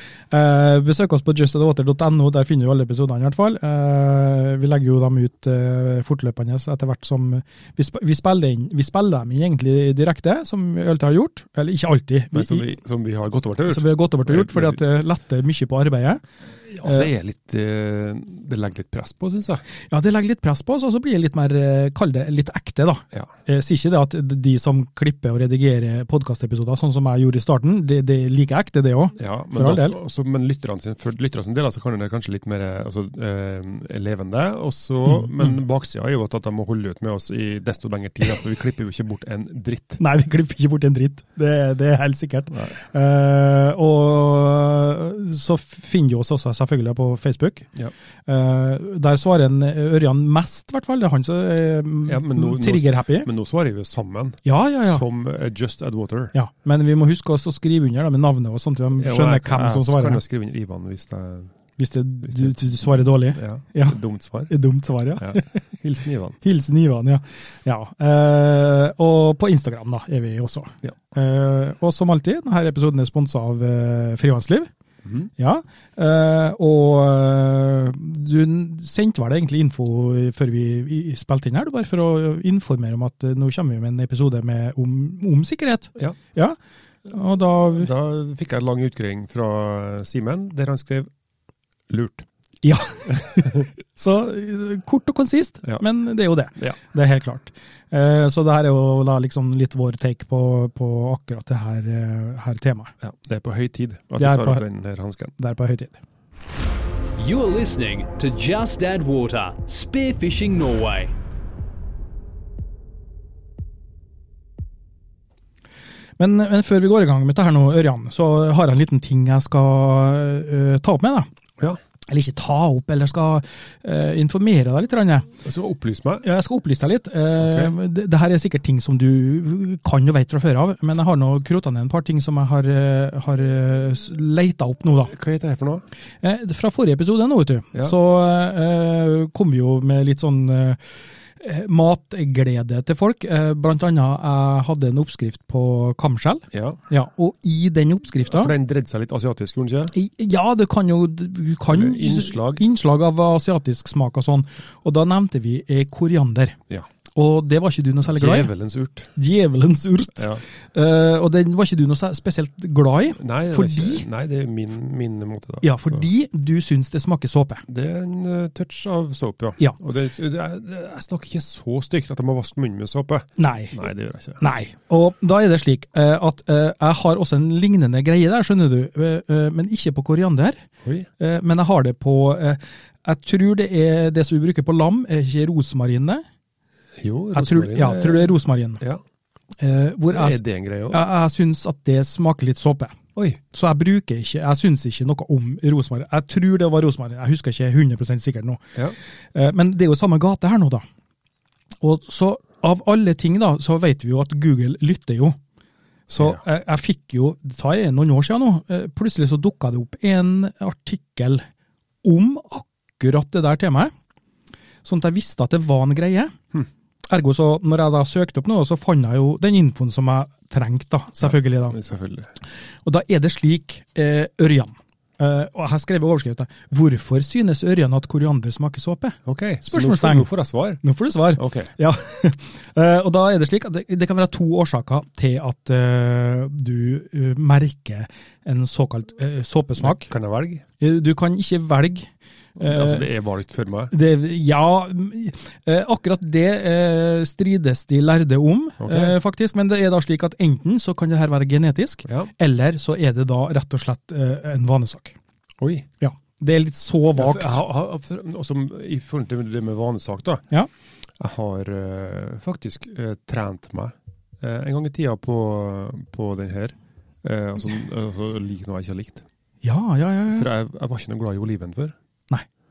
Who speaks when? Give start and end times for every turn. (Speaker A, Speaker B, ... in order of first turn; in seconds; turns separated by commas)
Speaker A: 0.3-12.7, Speaker B: 12.3-14.8, Speaker A: 13.7-17.1, Speaker B: 16.8-19.6, Speaker A: 19.9-30.0, Speaker B: 29.2-40.0, Speaker A: 40.0-47.7, Speaker A: 48.3-53.3, Speaker B: 52.0-56.3, Speaker A: 54.4-55.0, Speaker A: 56.3-60.2, Speaker B: 59.0-61.5, Speaker A: 61.8-65.6, Speaker B: 62.2-64.5, Speaker B: 65.2-66.4, Speaker A: 66.4-74.7, Speaker A: 75.4-87.9, Speaker B: 87.7-91.1, Speaker B: 91.9-92.3, Speaker A: 92.6-102.9, Speaker B: 93.1-93.6, Speaker B: 103.0-105.3, Speaker A: 104.2-104.6, Speaker A: 105.3-106.0, Speaker C: 107.2-111.1, Speaker A: 116.2-121.3, Speaker A: 122.1-125.3, Speaker B: 125.4-126.2, Speaker A: 126.2-135.1, Speaker B: 127.4-127.7, Speaker B: 135.1-135.8, Speaker A: 136.2-140.8, Speaker A: 141.4-148.5, Speaker B: 146.5-146.8, Speaker B: 148.3-149.9, Speaker A: 149.9-156.6, Speaker B: 151.7-152.6, Speaker A: 157.1-158.5, Speaker B: 158.0-159.1, Speaker A: 159.1-164.0, Speaker B: 160.2-160.4, Speaker B: 163.2-166.1, Speaker A: 165.6-167.6, Speaker B: 167.7-174.4, Speaker A: 173.4-173.9, Speaker A: 174.4-180.6, Speaker A: 181.2-186.2, Speaker B: 187.0-189.0, Speaker A: 187.3-188.8, Speaker A: 189.6-193.0, Speaker B: 190.1-191.1, Speaker A: 193.5-198.6, Speaker A: 199.3-200.8, Speaker A: 201.8-205.4, Speaker A: 206.1-211.4, Speaker B: 206.2-206.4, Speaker A: 212.0-213.9, Speaker A: 214.8-216.3, Speaker A: 217.1-221.8, Speaker B: 221.2-222.3, Speaker A: 222.8-230.3, Speaker B: 229.2-230.8, Speaker A: 230.8-240.1, Speaker B: 231.3-231.7, Speaker B: 239.8-240.6, Speaker A: 240.8-243.1, Speaker B: 242.6-243.9, Speaker A: 243.9-255.2, Speaker B: 248.8-249.2, Speaker B: 252.1-252.3, Speaker B: 255.6-255.9, Speaker A: 256.0-257.6, Speaker B: 257.2-260.4, Speaker B: 261.2-269.2, Speaker A: 269.6-270.5, Speaker B: 270.3-271.9